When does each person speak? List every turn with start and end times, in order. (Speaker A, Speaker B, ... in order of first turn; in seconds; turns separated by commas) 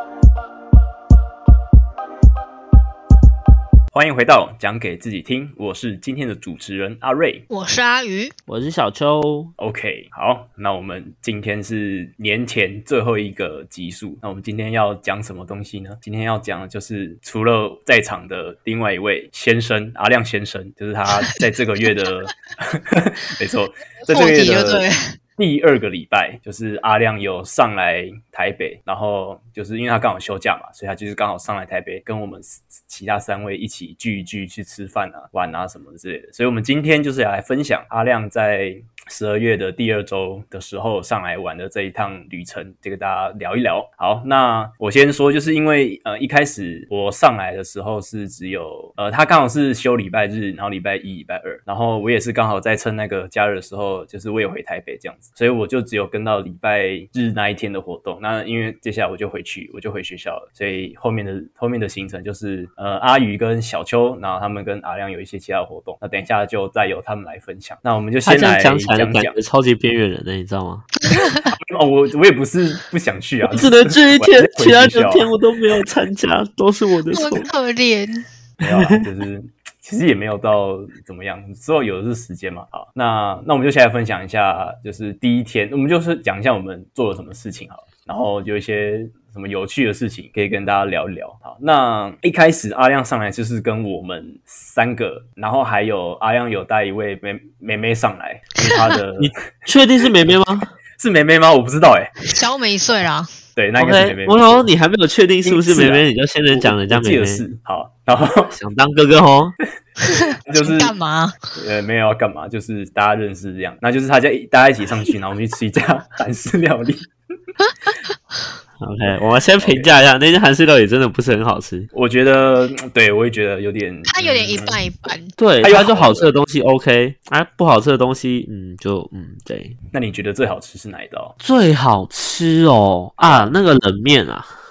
Speaker A: 3.9-7.5, Speaker B: 7.5-8.3, Speaker C: 8.5-9.5, Speaker A: 9.6-24.9, Speaker B: 24.1-25.1, Speaker A: 25.4-69.3, Speaker C: 68.2-70.9, Speaker B: 71.1-71.5, Speaker A: 71.5-75.3, Speaker C: 73.5-77.5, Speaker B: 77.1-78.2, Speaker A: 78.6-99.3, Speaker B: 98.6-98.9, Speaker C: 99.2-100.7, Speaker A: 101.0-102.1, Speaker B: 102.3-103.3, Speaker A: 103.5-104.7, Speaker C: 103.8-107.4, Speaker A: 105.4-108.5, Speaker C: 108.5-109.5, Speaker B: 110.0-111.4, Speaker A: 110.5-110.9, Speaker A: 111.5-117.1, Speaker B: 117.6-117.9, Speaker C: 118.8-121.9, Speaker A: 119.6-119.9, Speaker A: 121.9-124.8, Speaker B: 124.1-125.3, Speaker C: 125.4-129.8, Speaker A: 125.6-126.3, Speaker A: 129.9-131.3, Speaker C: 131.4-134.5, Speaker A: 133.2-133.5